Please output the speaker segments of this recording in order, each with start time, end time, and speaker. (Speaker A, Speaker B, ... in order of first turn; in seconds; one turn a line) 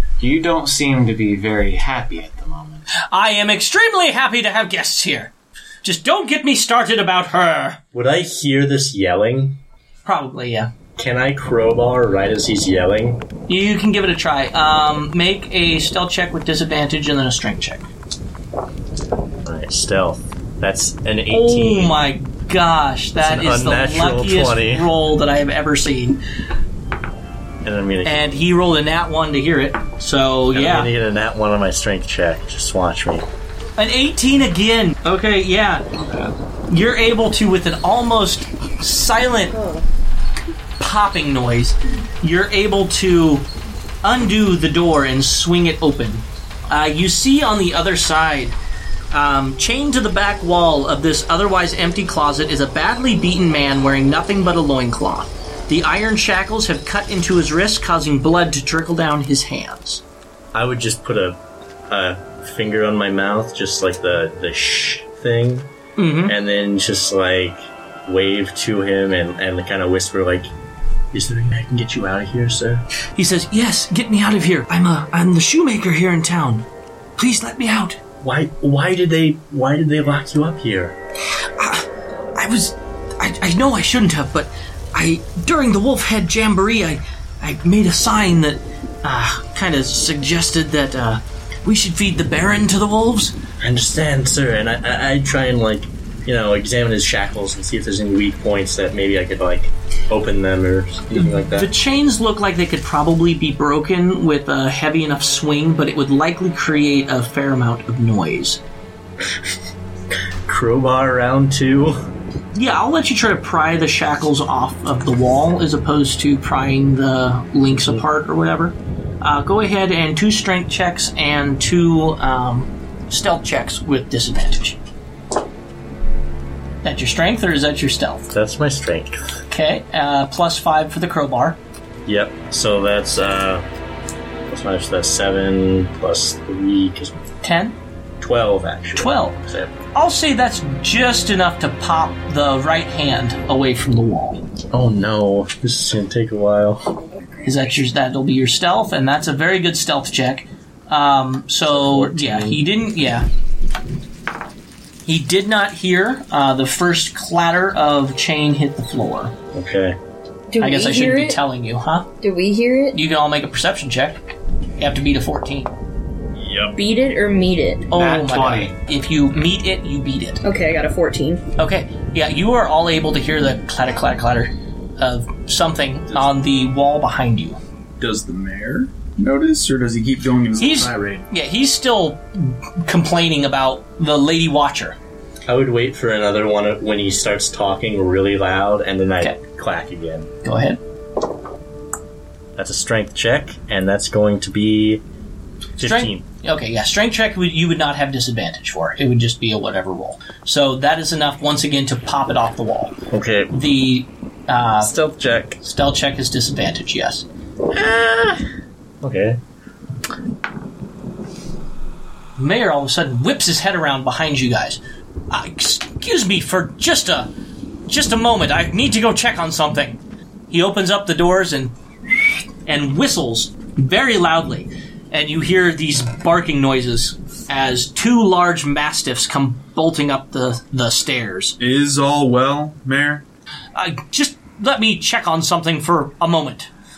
Speaker A: 0.2-2.9
Speaker B: 3.1-5.3
Speaker B: 5.8-7.8
Speaker C: 7.9-9.6
Speaker B: 10.0-10.7
Speaker C: 10.9-13.2
Speaker B: 13.5-17.9
Speaker C: 19.4-22.0
Speaker B: 21.3-26.2
Speaker C: 23.2-24.9
Speaker C: 27.6-28.2
Speaker B: 28.0-30.9
Speaker C: 30.5-33.3
Speaker B: 33.8-35.9
Speaker B: 36.7-39.6
Speaker D: 39.5-39.8
Speaker B: 40.8-43.5
Speaker B: 44.0-48.5
Speaker B: 49.1-60.0
Speaker C: 60.5-61.4
Speaker C: 61.9-65.7
Speaker B: 66.0-66.3
Speaker C: 66.2-70.5
Speaker C: 71.1-72.8
Speaker B: 73.2-76.7
Speaker B: 77.2-78.0
Speaker C: 78.2-81.0
Speaker B: 81.6-93.3
Speaker C: 93.6-101.7
Speaker B: 101.2-108.6
Speaker C: 110.5-112.0
Speaker B: 112.5-124.8
Speaker B: 126.8-128.3
Speaker C: 128.3-129.3
Speaker B: 129.5-131.6
Speaker C: 132.1-133.7
Speaker C: 134.5-137.2
Speaker B: 137.4-137.8
Speaker C: 138.2-139.8
Speaker B: 138.9-139.4
Speaker B: 139.9-144.4
Speaker C: 144.7-147.0
Speaker B: 147.4-153.3
Speaker C: 151.7-152.6
Speaker B: 155.1-159.3
Speaker C: 159.5-160.0
Speaker D: 160.5-161.4
Speaker B: 160.6-162.1
Speaker D: 162.2-163.0
Speaker B: 162.9-165.7
Speaker C: 166.4-166.7
Speaker D: 166.7-167.9
Speaker B: 167.9-170.4
Speaker A: 167.9-168.8
Speaker D: 170.4-171.4
Speaker B: 171.6-177.6
Speaker E: 178.0-181.2
Speaker B: 180.6-185.0
Speaker C: 185.4-190.3
Speaker B: 190.4-190.8
Speaker C: 192.6-195.0
Speaker C: 195.8-196.2
Speaker B: 195.8-202.9
Speaker C: 203.1-203.5
Speaker B: 203.5-204.9
Speaker C: 204.8-205.6
Speaker B: 205.6-207.2
Speaker C: 207.7-208.4
Speaker C: 209.0-209.4
Speaker B: 212.4-217.3
Speaker B: 217.9-221.7
Speaker B: 222.7-231.6
Speaker E: 231.6-233.2
Speaker B: 233.7-236.7